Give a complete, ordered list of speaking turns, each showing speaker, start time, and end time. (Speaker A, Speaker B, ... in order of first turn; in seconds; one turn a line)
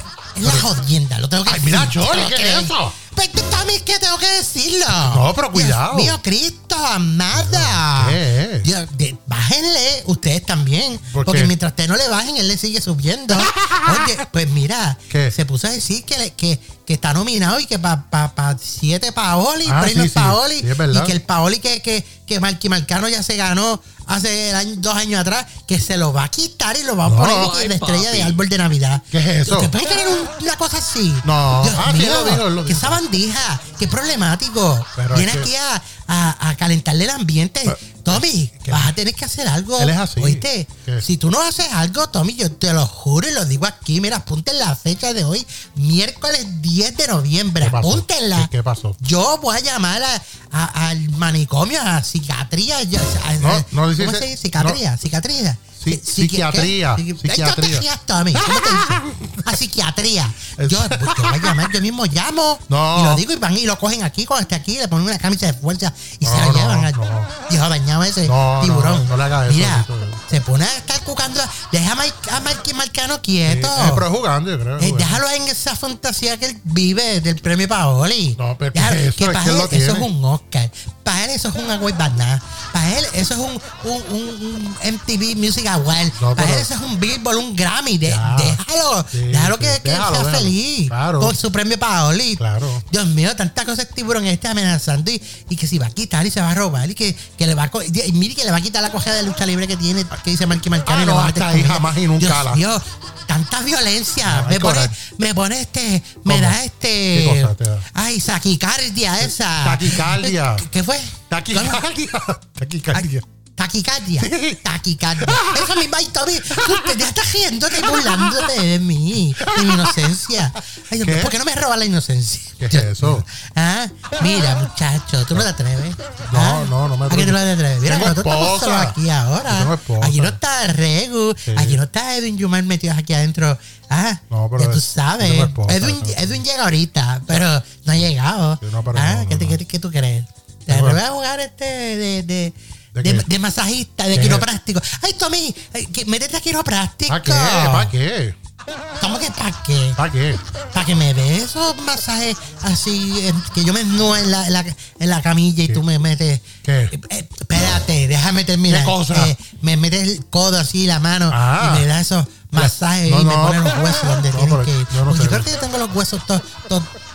Speaker A: 0.3-48.5
Speaker B: 1.5-3.0
Speaker B: 5.0-6.2
Speaker B: 7.3-8.7
Speaker B: 11.1-11.6
Speaker B: 13.3-14.1
Speaker B: 15.1-15.4
Speaker B: 19.6-21.2
Speaker B: 27.1-28.2
Speaker B: 29.1-29.7
Speaker B: 31.2-33.0
Speaker B: 35.0-35.5
Speaker B: 37.7-39.0
Speaker B: 39.8-41.1
Speaker B: 47.6-49.0
Speaker A: 49.0-74.1
Speaker B: 53.4-54.8
Speaker B: 55.8-59.5
Speaker B: 60.6-61.7
Speaker B: 62.7-63.2
Speaker B: 66.2-67.3
Speaker B: 68.3-70.2
Speaker B: 73.5-75.2
Speaker A: 74.8-111.9
Speaker B: 78.4-80.1
Speaker B: 86.2-86.7
Speaker B: 88.1-88.6
Speaker B: 89.1-91.4
Speaker B: 92.4-92.8
Speaker B: 100.8-102.6
Speaker B: 104.3-105.0
Speaker B: 106.3-106.6
Speaker B: 107.1-107.9
Speaker B: 109.3-110.7
Speaker B: 111.3-113.2
Speaker A: 112.9-147.9
Speaker B: 114.2-114.7
Speaker B: 115.2-115.8
Speaker B: 116.5-117.1
Speaker B: 117.7-118.5
Speaker B: 119.4-120.1
Speaker B: 121.0-121.3
Speaker B: 122.6-123.3
Speaker B: 126.3-130.4
Speaker B: 131.5-131.8
Speaker B: 134.3-136.4
Speaker B: 138.6-139.6
Speaker B: 140.7-141.0
Speaker B: 142.9-143.3
Speaker B: 144.1-144.5
Speaker B: 147.1-148.4
Speaker A: 149.0-150.0
Speaker B: 150.0-150.4
Speaker A: 150.7-166.9
Speaker B: 156.6-156.9
Speaker B: 158.7-159.3
Speaker B: 161.3-161.9
Speaker B: 162.5-165.5